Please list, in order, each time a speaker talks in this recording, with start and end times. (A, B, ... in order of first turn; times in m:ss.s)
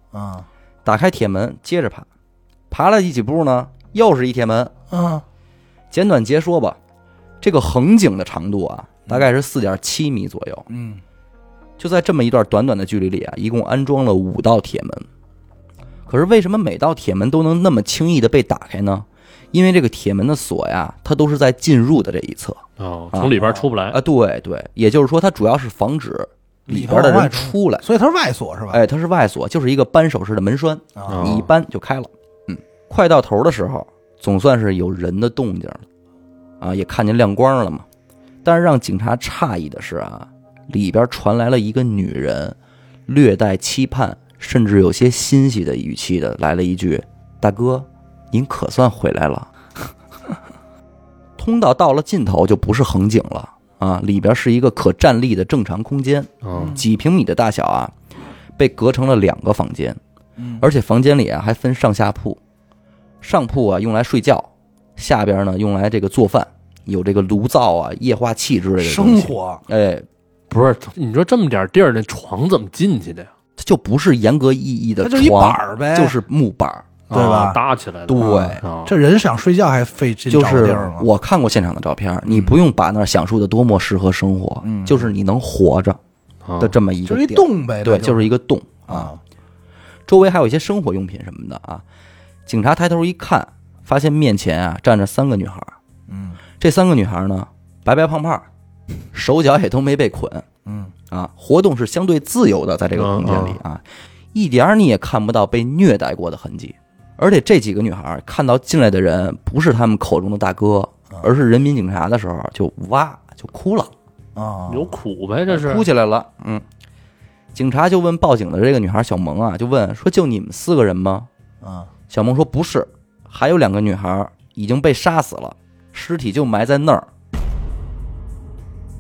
0:00.1-0:00.5 A
0:00.8-0:02.1 B
0:02.7-0:04.7 B
0:04.9-0:05.2 A
0:05.9-0:06.8 B
0:07.4-0:10.7 B
0:10.7-0:11.0 A
0:11.8-0:15.0 B
0:16.1-0:23.4 B
0:22.8-0:24.0 C
0:23.4-0:23.6 A
0:23.9-0:27.8 B
0:26.7-0:28.8 A
0:28.7-0:35.8 B
0:31.0-0:31.4 A
0:31.1-0:31.5 C
0:36.6-0:37.9 B
0:38.4-0:42.6 B
0:43.1-0:49.5 B
0:51.4-0:57.9 B
0:56.4-0:56.8 C
0:56.6-0:56.8 A
0:58.6-1:00.0 B
1:00.4-1:00.7 A
1:00.6-1:02.4 B
1:03.2-1:10.1 B
1:08.8-1:09.6 A
1:10.5-1:13.3 C
1:13.6-1:16.9 B
1:15.0-1:16.2 A
1:17.1-1:18.9 C
1:17.1-1:17.6 A
1:18.1-1:18.6 B
1:18.2-1:21.1 A
1:20.3-1:26.0 B
1:22.3-1:22.6 A
1:24.6-1:25.1 A
1:26.4-1:26.8 C
1:26.6-1:29.1 B
1:27.1-1:28.3 A
1:28.9-1:29.2 A
1:30.1-1:31.8 B
1:32.5-1:35.8 B
1:36.1-1:36.4 A
1:36.6-1:38.5 B
1:39.1-1:40.5 B
1:40.7-1:40.9 A
1:41.1-1:43.8 B
1:43.0-1:43.6 C
1:44.3-1:53.9 B
1:54.4-1:55.0 A
1:54.7-1:55.8 C
1:55.5-1:56.6 B
1:57.5-2:01.3 B
2:01.6-2:01.9 A
2:02.1-2:07.1 B